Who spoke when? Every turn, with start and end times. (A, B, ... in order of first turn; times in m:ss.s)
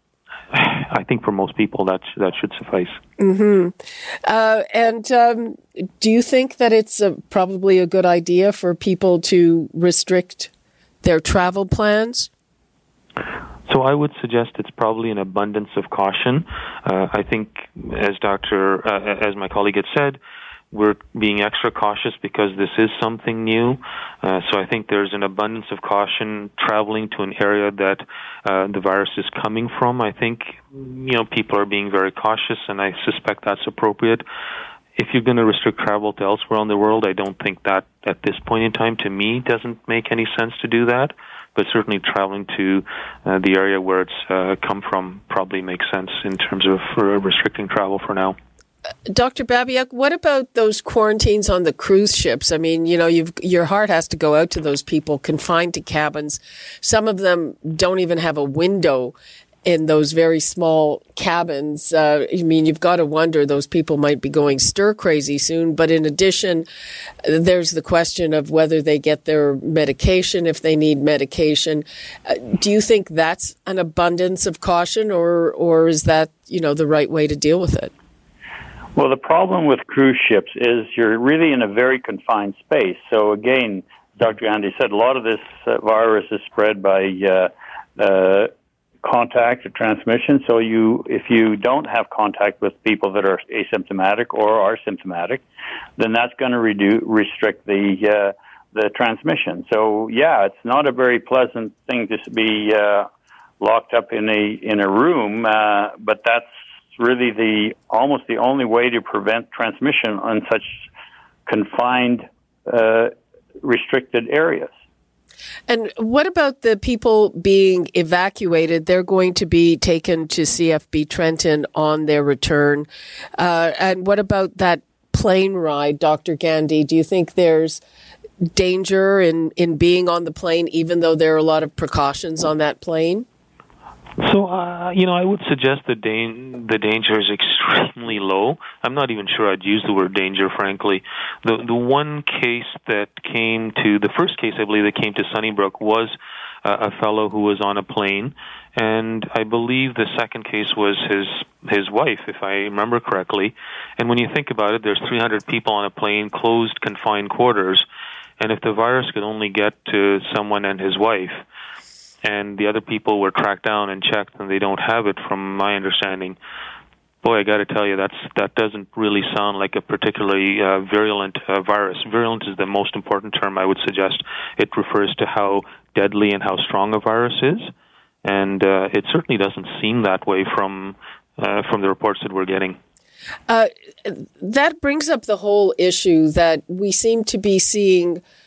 0:00.5-0:03.0 A
0:03.2-0:10.5 B
0:11.0-0:12.3 B
0:13.7-0:20.2 A
0:20.7-0:34.2 A
0:35.0-0:48.4 A
0:49.1-1:06.7 B
1:07.2-1:17.9 B
1:19.0-1:28.5 C
1:29.0-1:35.4 C
1:36.0-1:43.1 C
1:43.6-1:46.4 C
1:47.0-1:50.8 C
1:51.5-1:53.1 C
1:53.6-1:54.7 C
1:55.7-2:02.9 B
2:03.4-2:07.8 B
2:08.5-2:13.2 B
2:14.2-2:37.8 A
2:38.4-2:41.3 A
2:42.2-2:46.4 A
2:47.2-2:57.6 A
2:58.2-3:02.8 A
3:03.5-3:08.2 B